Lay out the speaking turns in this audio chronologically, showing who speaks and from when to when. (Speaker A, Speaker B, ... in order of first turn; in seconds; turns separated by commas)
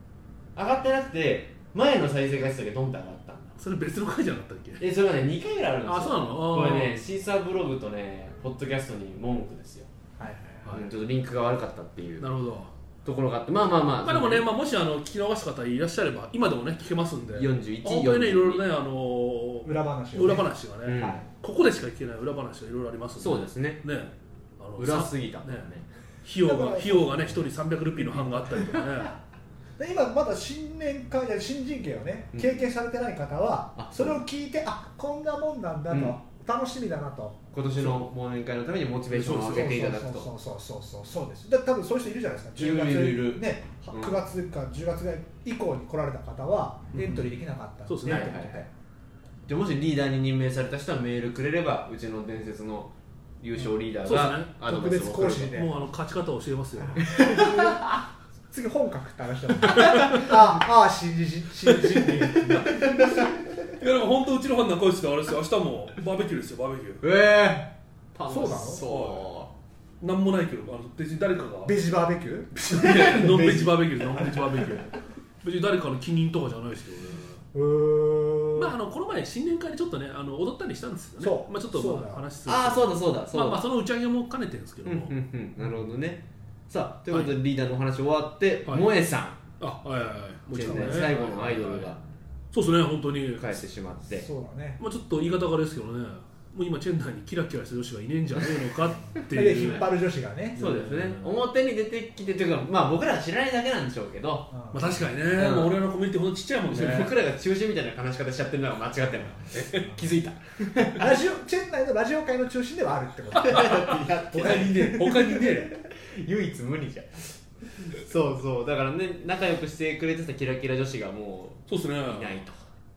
Speaker A: 0.6-3.6, Speaker B: 3.6-4.8, Speaker A: 4.8-9.9, Speaker B: 5.8-7.0, Speaker C: 10.2-10.7, Speaker A: 10.7-12.3, Speaker B: 12.2-12.7, Speaker A: 13.0-14.4, Speaker B: 14.0-25.7, Speaker A: 17.3-18.6, Speaker C: 19.6-21.2, Speaker A: 20.9-21.2, Speaker A: 23.2-23.9, Speaker A: 24.8-25.9, Speaker B: 26.2-29.1, Speaker C: 26.4-27.4, Speaker C: 28.0-28.6, Speaker C: 29.8-37.4, Speaker A: 32.3-32.6, Speaker A: 33.8-34.2, Speaker A: 35.9-36.2, Speaker A: 37.5-40.3, Speaker B: 39.1-39.9, Speaker C: 39.4-48.7, Speaker A: 42.5-44.2, Speaker B: 46.9-47.3, Speaker B: 47.9-48.3, Speaker A: 48.0-48.7, Speaker A: 49.5-55.5, Speaker B: 54.0-54.5, Speaker C: 54.6-55.8, Speaker B: 55.5-57.1, Speaker C: 56.8-57.9, Speaker A: 57.0-57.9, Speaker C: 58.5-63.2, Speaker A: 59.9-60.2, Speaker B: 59.9-60.2, Speaker A: 62.5-63.4, Speaker B: 63.8-67.0, Speaker A: 67.0-69.5, Speaker C: 68.3-68.8, Speaker B: 68.8-69.3, Speaker B: 70.0-71.8, Speaker C: 71.6-74.5, Speaker B: 72.5-74.9, Speaker B: 75.4-77.4, Speaker C: 77.5-78.7, Speaker B: 78.5-85.1, Speaker C: 81.2-82.2, Speaker A: 82.5-83.7, Speaker A: 84.8-89.4, Speaker B: 87.1-87.3, Speaker B: 89.6-91.9, Speaker A: 90.5-92.0, Speaker B: 92.5-93.5, Speaker A: 93.4-94.3, Speaker C: 94.2-94.8, Speaker B: 94.8-99.9, Speaker C: 99.0-100.6, Speaker A: 99.2-99.6, Speaker B: 100.5-101.4, Speaker A: 100.5-104.5, Speaker C: 104.5-105.0, Speaker B: 104.7-107.1, Speaker A: 105.3-105.8, Speaker A: 106.7-111.1, Speaker B: 109.5-109.9, Speaker C: 110.9-115.5, Speaker A: 113.3-114.9, Speaker B: 114.3-115.7, Speaker A: 115.8-122.6, Speaker B: 121.7-122.4